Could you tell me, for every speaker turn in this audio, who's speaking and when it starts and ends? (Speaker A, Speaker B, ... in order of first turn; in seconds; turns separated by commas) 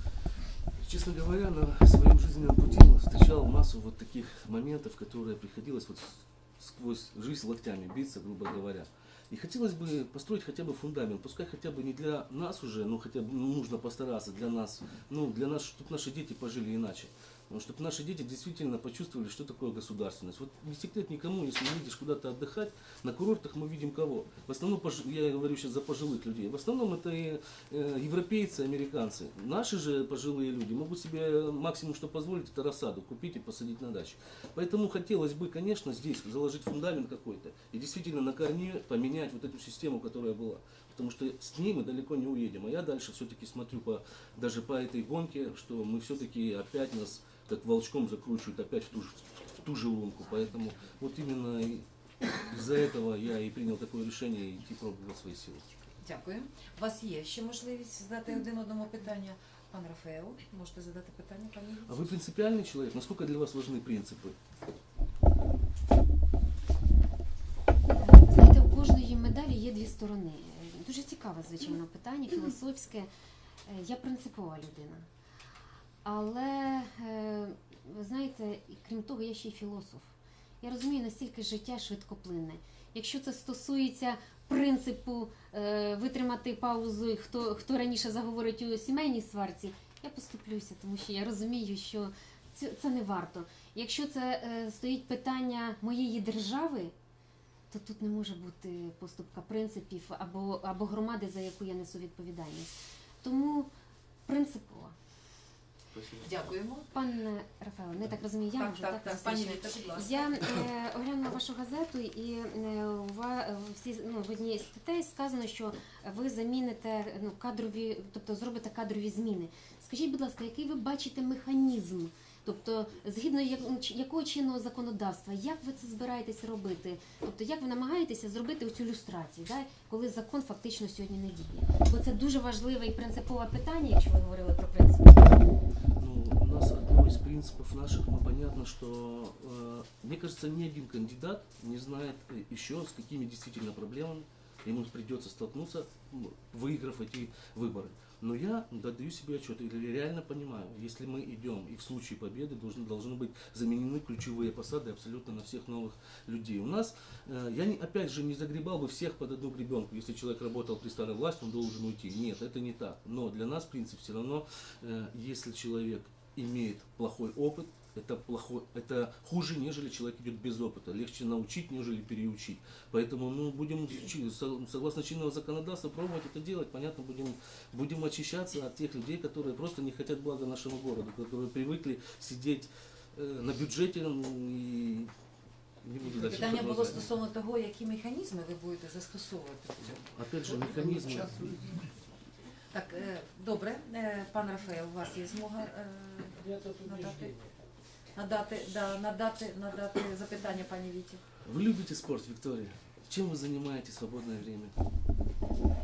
Speaker A: 0.8-51.9, Speaker A: 52.5-55.7, Speaker B: 56.0-62.1, Speaker A: 61.9-64.3, Speaker C: 68.0-73.1, Speaker C: 73.7-75.1, Speaker C: 76.0-96.9, Speaker C: 97.7-103.7, Speaker C: 104.2-104.9, Speaker A: 105.9-106.4, Speaker B: 106.2-106.9, Speaker C: 106.9-135.3, Speaker B: 108.5-110.6, Speaker A: 136.0-185.1, Speaker A: 185.8-187.1, Speaker B: 186.1-191.8, Speaker A: 190.0-191.5, Speaker B: 192.7-197.3, Speaker B: 198.1-201.2, Speaker A: 201.4-204.7